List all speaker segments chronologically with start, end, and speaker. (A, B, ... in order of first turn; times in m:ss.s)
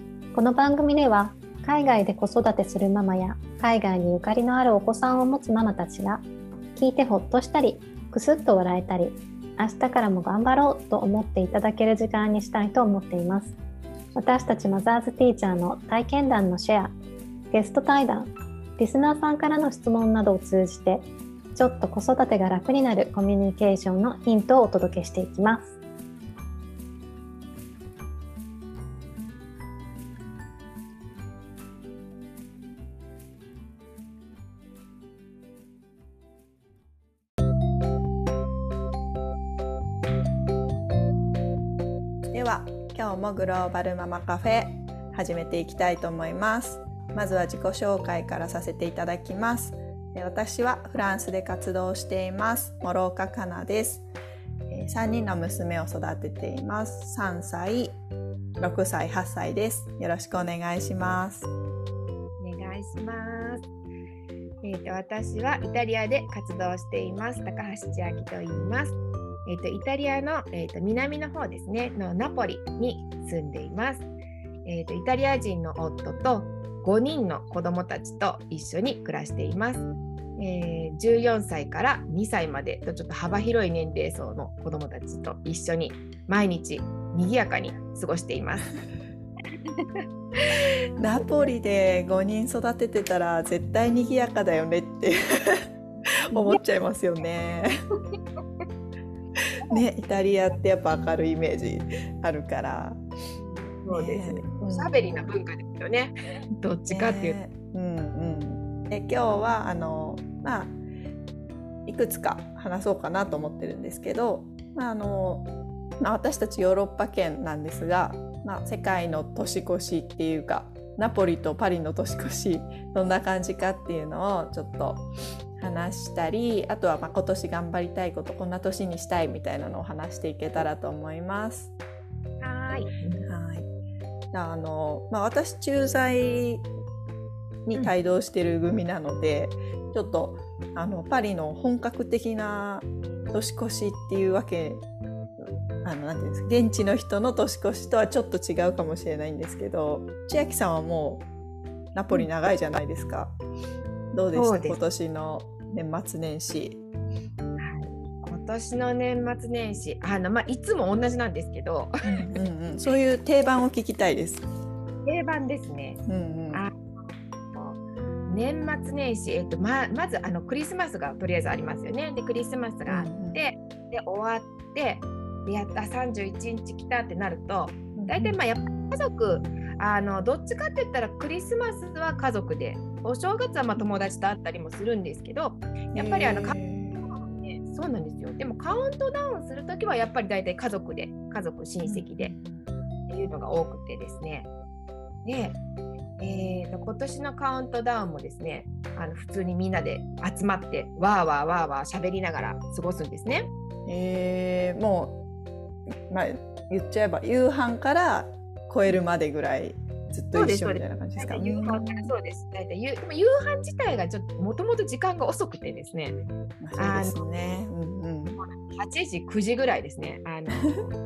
0:00.3-0:13.6 A
0:14.2-0:16.9 A
0:17.5-0:25.8 A
0:42.3-0:54.1 B
0:54.7-0:58.0 B
0:58.6-1:01.5 B
1:02.4-1:03.7 C
1:04.6-1:14.1 C
1:14.6-1:19.9 C
1:20.4-1:28.7 C
1:29.7-1:30.6 C
1:31.0-1:35.6 B
1:31.2-1:31.5 C
1:36.3-1:36.6 C
1:36.3-1:37.7 B
1:39.7-1:43.0 B
1:43.4-1:47.4 C
1:43.9-1:45.3 B
1:46.9-1:50.8 B
1:51.9-2:05.1 B
2:05.6-2:11.7 B
2:12.4-2:13.2 C
2:13.2-2:13.7 B
2:14.3-2:16.7 B
2:17.7-2:24.8 B
2:25.4-2:31.2 B
2:31.9-2:33.4 B
2:34.1-2:36.8 B
2:34.3-2:34.8 C
2:37.6-2:41.9 C
2:42.0-2:44.5 B
2:45.1-2:46.0 C
2:46.1-2:46.6 B
2:47.5-3:12.4 C
2:52.9-2:53.4 B
2:58.0-2:58.4 B
3:05.9-3:07.0 B
3:11.8-3:12.7 B
3:13.1-3:14.5 C
3:15.2-3:15.6 C
3:16.2-3:23.5 C
3:23.9-3:25.2 B
3:25.9-3:32.1 B
3:30.3-3:36.2 C
3:36.6-3:38.4 B
3:36.8-3:37.2 C
3:38.4-3:40.7 C